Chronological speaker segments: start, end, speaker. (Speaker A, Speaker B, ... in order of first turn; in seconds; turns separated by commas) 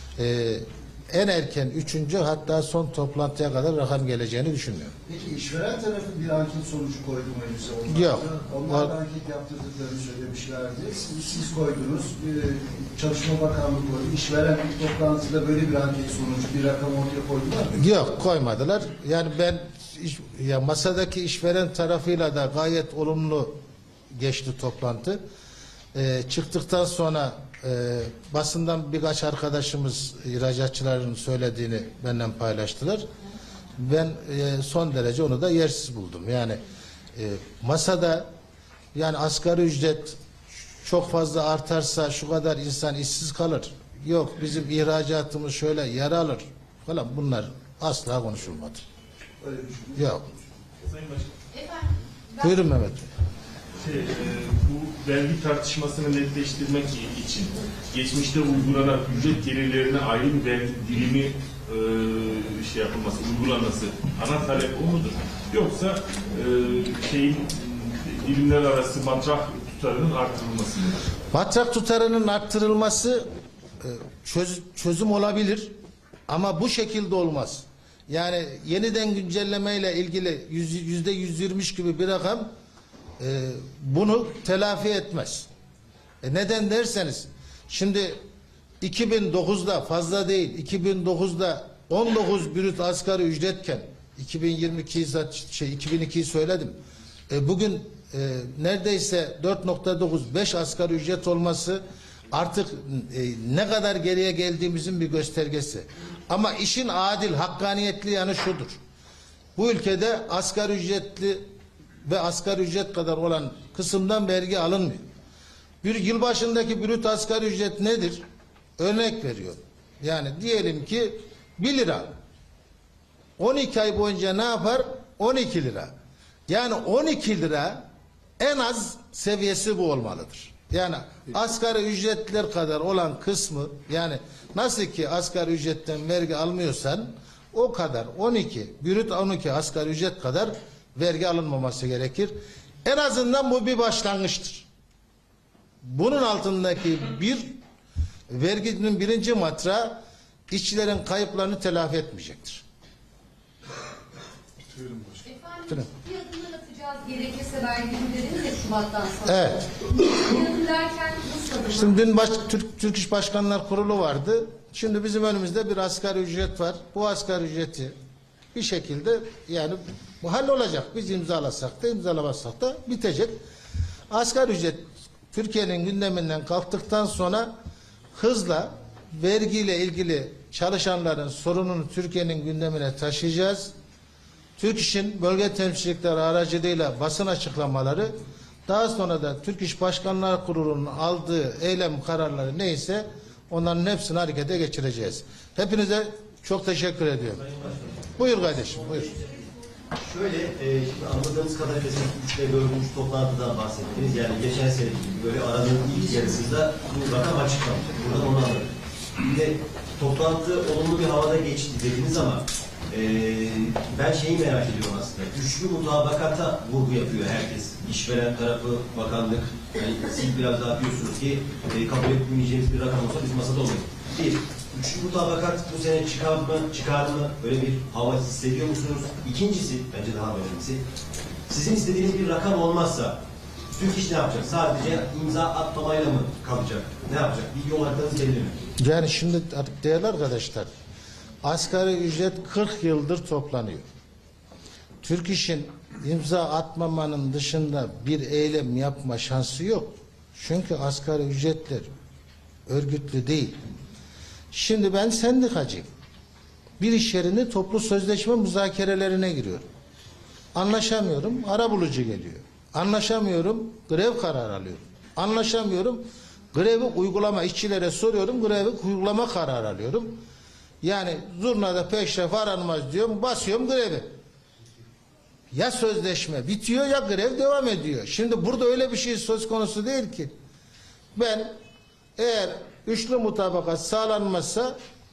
Speaker A: 0.2-4.9, Speaker B: 5.1-17.8, Speaker A: 7.9-8.9, Speaker A: 17.7-23.6, Speaker A: 24.1-25.2, Speaker A: 25.9-33.0, Speaker A: 33.8-36.6, Speaker A: 37.1-38.3, Speaker A: 38.9-40.2, Speaker A: 40.8-48.8, Speaker B: 49.4-50.0, Speaker A: 50.0-50.2, Speaker C: 50.8-51.3, Speaker D: 51.5-52.6, Speaker A: 52.4-53.1, Speaker C: 53.8-70.9, Speaker A: 71.3-73.2, Speaker A: 73.8-75.7, Speaker A: 76.3-82.5, Speaker A: 83.2-85.5, Speaker A: 86.2-88.2, Speaker A: 88.8-96.8, Speaker A: 97.3-108.8, Speaker A: 109.5-111.4, Speaker A: 112.0-115.0, Speaker A: 115.8-118.2, Speaker A: 118.8-122.1, Speaker A: 123.4-125.9, Speaker A: 126.5-127.8, Speaker A: 128.4-144.7, Speaker A: 145.8-147.6, Speaker A: 148.3-152.6, Speaker D: 155.2-162.0, Speaker A: 159.2-159.7, Speaker A: 161.7-167.9, Speaker A: 168.5-173.4, Speaker A: 174.1-177.5, Speaker A: 178.1-183.7, Speaker A: 184.6-188.1, Speaker A: 188.7-197.4, Speaker E: 197.3-199.4, Speaker A: 198.2-199.1, Speaker E: 200.0-208.7, Speaker E: 209.2-230.8, Speaker E: 231.5-233.2, Speaker E: 233.7-238.6, Speaker A: 238.8-240.7, Speaker A: 241.4-243.8, Speaker A: 245.0-251.9, Speaker A: 252.7-253.6, Speaker A: 254.5-255.9, Speaker A: 256.8-259.7, Speaker A: 260.5-270.2, Speaker A: 270.8-274.1, Speaker A: 275.5-280.3, Speaker A: 281.1-281.5, Speaker A: 282.2-284.8